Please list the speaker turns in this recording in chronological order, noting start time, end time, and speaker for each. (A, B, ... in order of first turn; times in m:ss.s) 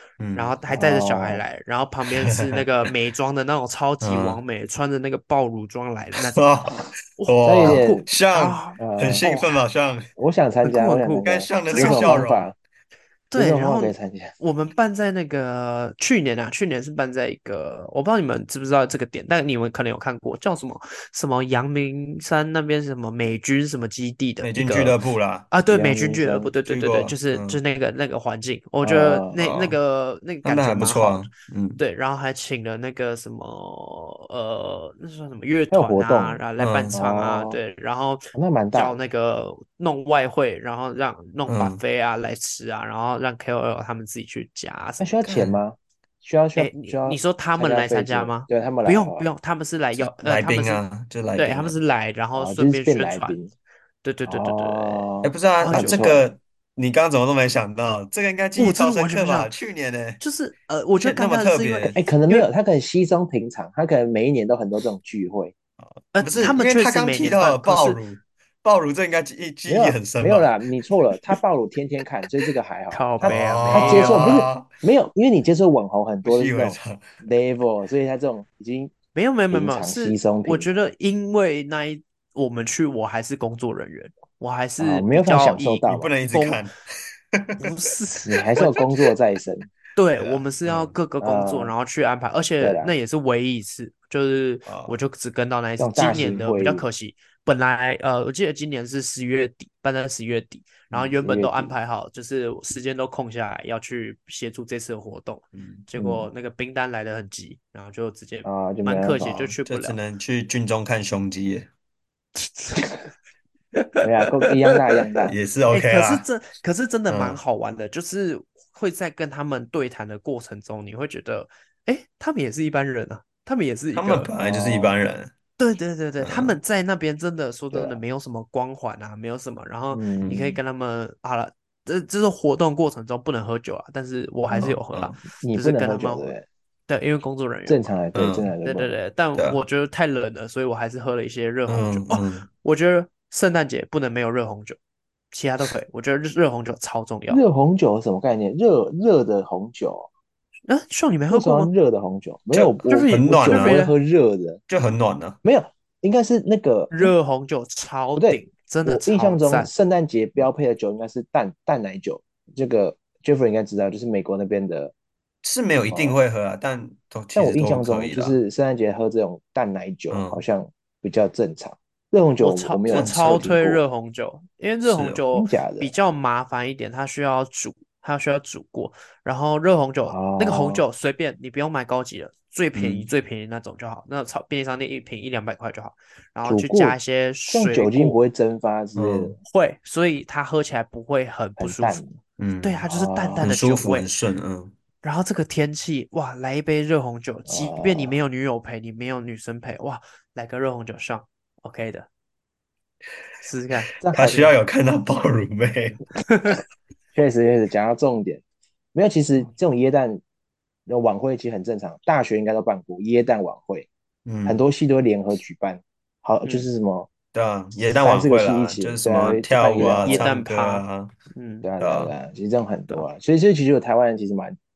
0:00.2-0:00.6 A
0:00.3-0:06.4 B
0:00.7-0:01.4 C
0:02.2-0:02.6 A
0:04.0-0:04.4 A
0:06.2-0:10.1 A
0:07.2-0:09.6 B
0:07.4-0:08.1 C
0:08.8-0:09.2 C
0:10.2-0:12.5 C
0:10.6-0:12.2 B
0:11.2-0:12.5 A
0:13.3-0:25.0 B
0:13.4-0:14.3 C
0:24.4-0:25.5 A
0:25.5-0:45.4 B
0:25.7-0:26.5 C
0:26.6-0:27.6 A
0:28.8-0:29.4 C
0:29.3-0:29.8 A
0:30.4-0:31.8 A
0:35.7-0:37.6 C
0:36.6-0:36.9 A
0:38.3-0:39.0 C
0:41.5-0:41.8 A
0:45.0-0:49.3 C
0:45.3-0:45.6 A
0:46.6-0:50.8 B
0:50.0-0:51.8 A
0:51.3-0:53.3 B
0:52.4-0:53.5 C
0:54.0-0:55.1 B
0:54.2-0:56.2 C
0:55.2-1:00.2 A
0:55.6-0:56.1 B
0:58.6-0:59.5 B
1:00.2-1:02.5 B
1:01.0-1:02.0 A
1:01.9-1:05.5 C
1:05.8-1:10.5 A
1:06.1-1:08.0 B
1:09.7-1:18.9 C
1:12.9-1:14.4 B
1:13.2-1:14.7 A
1:16.2-1:17.1 A
1:19.1-1:26.6 B
1:19.5-1:20.7 C
1:24.8-1:26.1 C
1:25.8-1:26.7 A
1:27.3-1:27.6 A
1:27.6-1:28.9 B
1:28.2-1:29.7 C
1:30.0-1:50.0 B
1:30.1-1:31.0 A
1:31.2-1:31.7 C
1:32.6-1:32.9 C
1:34.6-1:34.9 A
1:35.8-1:36.8 C
1:40.9-1:41.7 C
1:45.5-1:45.9 A
1:45.9-1:46.3 C
1:48.4-1:49.6 C
1:49.6-1:51.7 A
1:52.4-1:52.9 B
1:53.7-1:54.0 B
1:54.0-1:55.3 C
1:55.2-1:56.2 A
1:55.7-2:04.3 B
1:57.1-1:57.4 A
2:03.9-2:05.3 A
2:04.4-2:04.9 C
2:05.6-2:16.3 B
2:06.2-2:06.6 A
2:07.7-2:08.0 C
2:09.9-2:10.6 C
2:14.5-2:15.2 A
2:15.4-2:16.4 C
2:16.9-2:17.9 B
2:17.7-2:18.9 C
2:18.1-2:18.5 A
2:18.6-2:24.8 B
2:19.4-2:19.6 A
2:21.7-2:22.5 A
2:25.3-2:27.4 B
2:27.3-2:30.1 C
2:30.7-2:31.7 B
2:31.3-2:34.6 C
2:32.5-2:33.8 A
2:32.9-2:34.0 B
2:34.7-2:35.4 A
2:35.4-2:37.1 C
2:36.9-2:39.7 B
2:38.2-2:44.9 C
2:45.4-2:48.4 A
2:45.9-2:46.2 C
2:47.3-2:53.8 C
2:50.1-2:50.4 A
2:52.4-3:08.2 B
2:52.9-2:53.5 A
2:54.8-2:55.2 A
2:55.3-2:55.9 C
3:00.0-3:00.8 C
3:02.7-3:03.1 A
3:06.4-3:09.4 C
3:09.0-3:09.3 A
3:09.4-3:12.0 B
3:11.6-3:12.2 C
3:12.4-3:12.9 A
3:12.6-3:14.1 B
3:12.9-3:13.5 C
3:13.4-3:14.7 A
3:15.0-3:22.1 B
3:17.5-3:18.2 C
3:23.4-3:23.9 B
3:24.0-3:24.6 C
3:24.1-3:26.0 A
3:26.2-3:26.6 B
3:27.1-3:28.4 C
3:28.9-3:30.2 C
3:30.9-3:33.9 C
3:34.2-3:34.6 A
3:34.4-3:37.1 C
3:37.3-3:41.1 A
3:37.9-3:40.2 C
3:40.0-3:41.7 B
3:41.6-3:44.6 C
3:41.8-3:42.1 A